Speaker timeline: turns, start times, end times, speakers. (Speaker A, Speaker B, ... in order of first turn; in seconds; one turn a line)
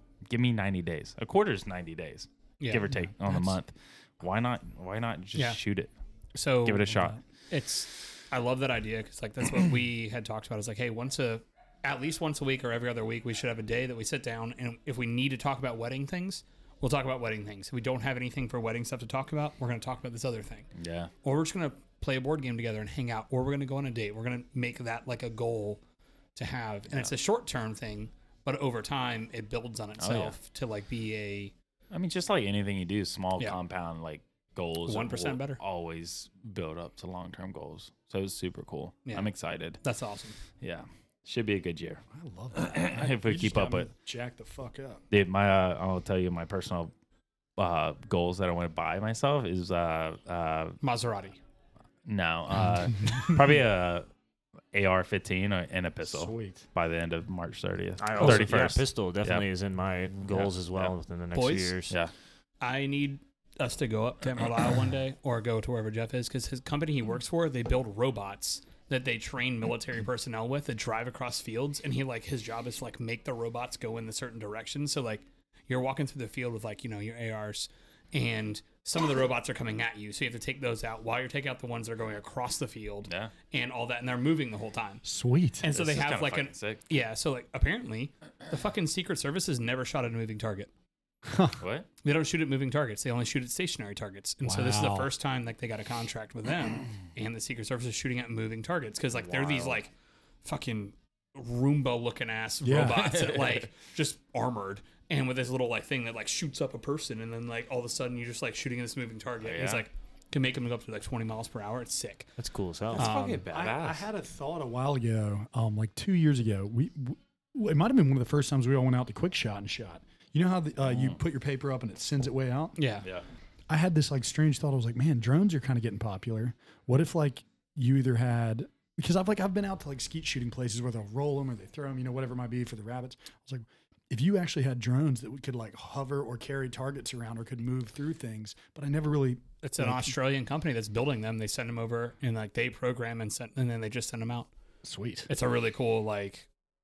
Speaker A: 0.3-5.9
Speaker B: 2.6-2.9
Speaker C: 3.2-3.5
Speaker B: 6.3-20.7
Speaker A: 6.6-7.2
Speaker A: 20.7-21.1
Speaker B: 21.2-25.8
Speaker B: 26.3-31.5
Speaker A: 30.0-30.4
Speaker A: 31.9-39.8
Speaker B: 34.8-35.6
Speaker B: 39.0-40.4
Speaker A: 40.6-42.0
Speaker C: 42.1-45.0
Speaker A: 42.5-43.9
Speaker A: 45.1-46.9
Speaker A: 47.6-50.8
Speaker B: 50.8-51.4
Speaker A: 52.0-54.1
Speaker A: 54.7-59.5
Speaker C: 56.0-56.6
Speaker D: 58.0-61.9
Speaker A: 60.2-60.9
Speaker B: 61.3-61.8
Speaker B: 62.6-85.0
Speaker A: 83.1-83.3
Speaker C: 85.0-85.7
Speaker B: 85.6-90.7
Speaker A: 85.7-86.8
Speaker C: 91.2-91.6
Speaker A: 91.6-91.9
Speaker B: 92.0-99.9
Speaker C: 94.4-95.1
Speaker D: 99.2-99.8
Speaker B: 100.4-112.3
Speaker C: 102.6-103.1
Speaker A: 103.0-103.6
Speaker A: 109.4-109.8
Speaker D: 112.4-113.1
Speaker A: 112.9-114.0
Speaker B: 112.9-113.4
Speaker C: 113.4-122.8
Speaker A: 120.9-121.2
Speaker B: 122.8-123.1
Speaker C: 123.7-140.1
Speaker B: 139.6-144.5
Speaker C: 144.8-145.3
Speaker B: 145.3-146.5